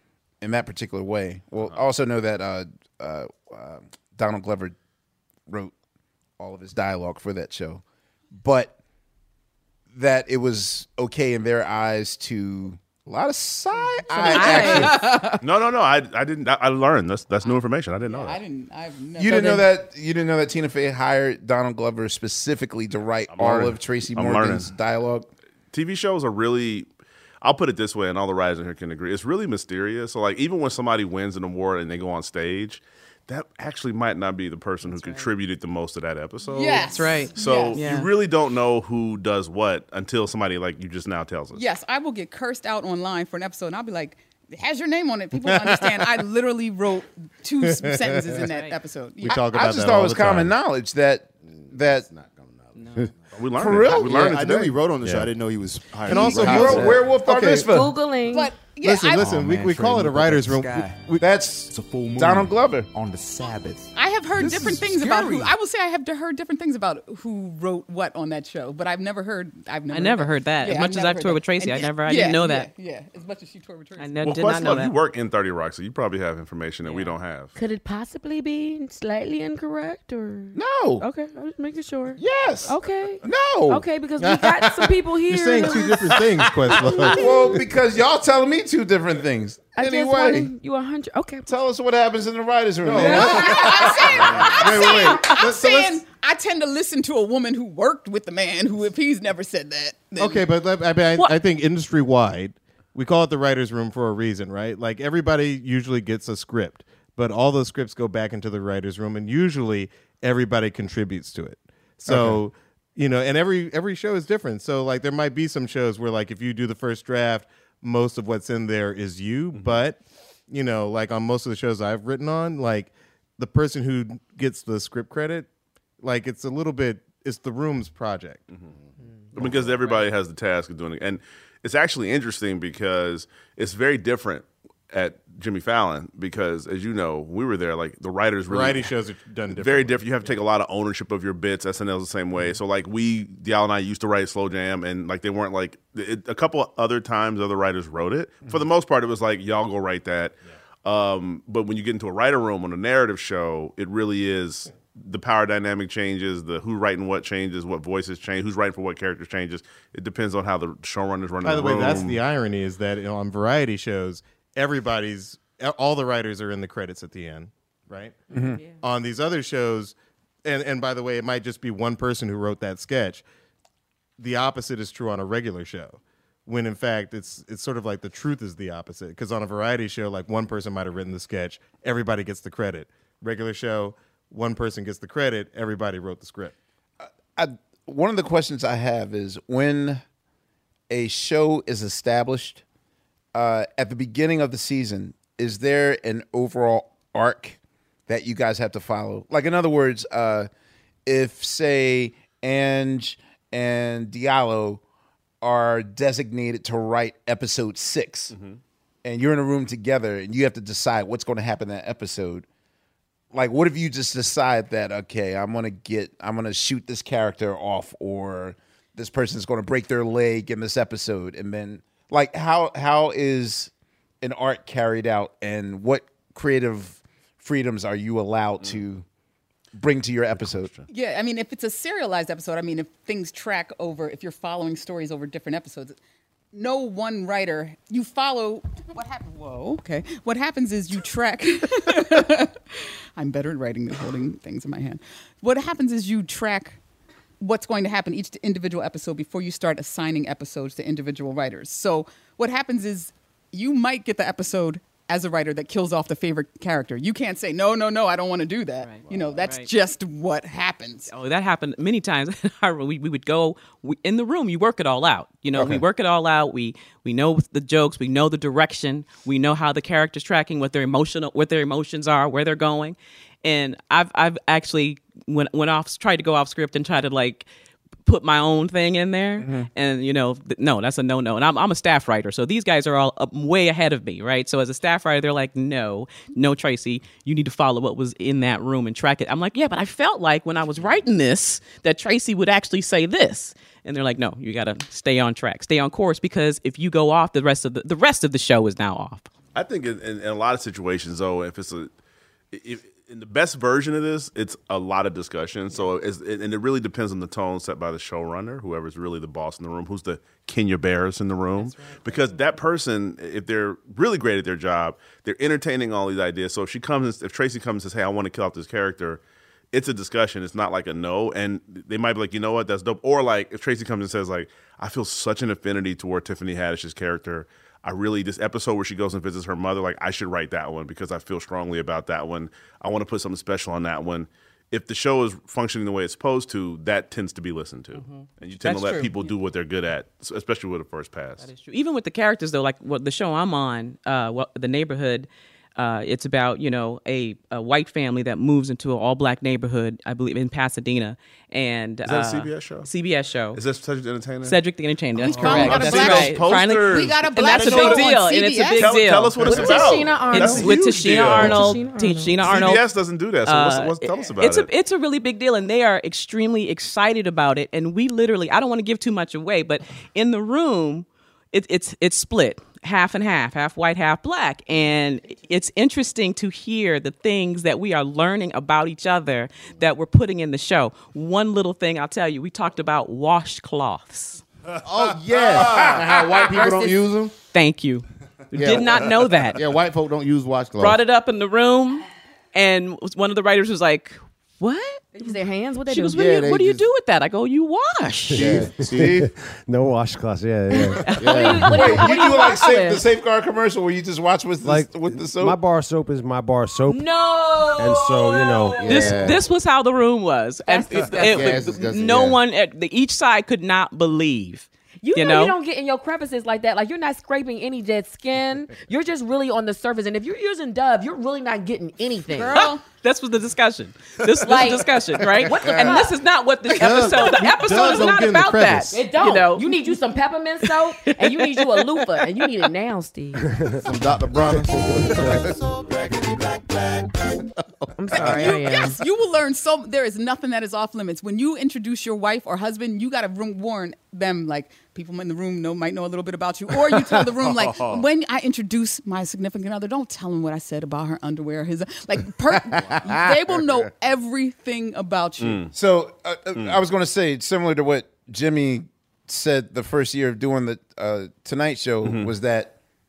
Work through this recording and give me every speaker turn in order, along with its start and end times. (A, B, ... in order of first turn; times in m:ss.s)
0:00.4-0:04.8 A
0:05.5-0:05.7 A
0:06.4-0:07.8 A
0:08.3-0:08.7 A
0:09.9-0:15.0 A
0:14.1-0:15.4 B
0:14.2-0:15.4 C
0:15.4-0:18.4 D
0:18.1-0:19.7 C
0:19.2-0:25.3 A
0:23.3-0:24.7 D
0:25.7-0:26.9 D
0:27.4-0:41.6 D
0:34.8-0:35.3 E
0:36.4-0:37.8 C
0:36.8-0:38.1 E
0:37.4-0:37.7 A
0:41.5-0:49.5 C
0:45.4-0:46.0 F
0:47.6-0:48.5 F
0:48.4-0:48.8 E
0:49.2-0:50.6 F
0:49.3-0:52.1 A
0:51.4-0:53.1 G
0:52.7-0:53.1 E
0:53.3-0:54.4 D
0:53.5-0:54.7 A
0:53.9-0:57.1 H
0:56.0-0:57.6 F
0:56.1-0:58.0 A
0:57.3-0:58.5 B
0:58.3-0:59.3 C
0:58.8-1:01.3 F
0:59.4-1:00.6 G
1:01.2-1:02.9 A
1:03.9-1:14.1 C
1:04.4-1:04.8 H
1:09.9-1:12.7 E
1:14.0-1:14.9 E
1:14.2-1:17.5 D
1:16.8-1:17.1 E
1:17.6-1:27.6 B
1:20.5-1:21.0 A
1:22.2-1:22.7 A
1:23.2-1:23.9 A
1:24.2-1:27.6 F
1:27.1-1:30.5 A
1:29.7-1:31.5 B
1:31.5-1:34.5 A
1:32.8-1:36.0 F
1:33.0-1:40.4 C
1:33.1-1:34.1 B
1:40.2-2:05.5 F
1:59.5-1:59.8 D
2:06.0-2:08.4 F
2:09.3-2:18.9 D
2:09.4-2:10.1 E
2:18.5-2:20.4 F
2:19.5-2:42.2 D
2:41.4-2:48.2 F
2:48.3-2:48.6 A
2:48.8-2:53.2 F
2:54.2-3:06.5 F
3:07.0-3:10.0 A
3:10.9-3:12.6 A
3:13.3-3:20.5 A
3:21.0-3:24.8 A
3:25.4-3:28.3 A
3:28.3-3:28.6 D
3:29.0-3:32.4 A
3:33.3-3:43.7 A
3:44.2-3:49.0 A
3:49.8-3:50.7 A
3:50.3-3:50.8 D
3:50.9-3:56.0 C
3:56.5-4:06.8 C
4:07.4-4:21.1 C
4:18.8-4:19.7 E
4:21.1-4:37.5 E
4:38.0-4:59.3 E
4:39.4-4:39.7 A
4:59.5-5:01.9 D
5:02.5-5:19.2 D
5:11.6-5:12.3 E
5:19.7-5:41.5 D
5:37.9-5:39.1 E
5:41.4-5:53.6 E
5:52.0-5:52.9 D
5:53.5-5:54.6 D
5:54.4-6:02.8 E
5:55.2-5:58.9 C
5:55.3-5:58.0 D
5:58.8-6:01.7 D
5:59.4-6:02.5 B
6:02.4-6:04.7 D
6:03.4-6:24.4 E
6:24.8-6:27.3 G
6:25.6-6:25.9 A
6:26.5-6:27.0 B
6:27.5-6:29.6 E
6:28.5-6:31.0 G
6:30.8-6:35.3 E
6:35.2-6:36.2 B
6:35.9-6:38.4 E
6:36.1-6:36.9 G
6:38.3-6:41.8 I
6:38.4-6:39.3 G
6:38.4-6:39.2 A
6:40.7-6:43.0 B
6:41.2-6:41.6 G
6:41.6-6:45.6 A
6:44.6-6:47.1 I
6:46.9-6:49.2 B
6:47.8-6:49.1 I
6:48.8-6:49.4 G
6:48.8-6:55.5 E
6:50.7-6:51.7 B
6:51.2-6:52.4 G
6:55.0-7:02.7 B
7:02.3-7:02.8 C
7:02.9-7:09.7 E
7:04.4-7:06.2 B
7:06.7-7:09.0 F
7:08.9-7:13.4 B
7:13.8-7:16.2 G
7:17.8-7:18.4 G
7:18.0-7:19.0 B
7:18.3-7:35.7 C
7:27.2-7:27.8 G
7:32.5-7:33.3 G
7:35.4-7:35.7 D
7:35.7-7:42.7 A
7:36.5-7:36.8 D
7:42.0-7:42.3 D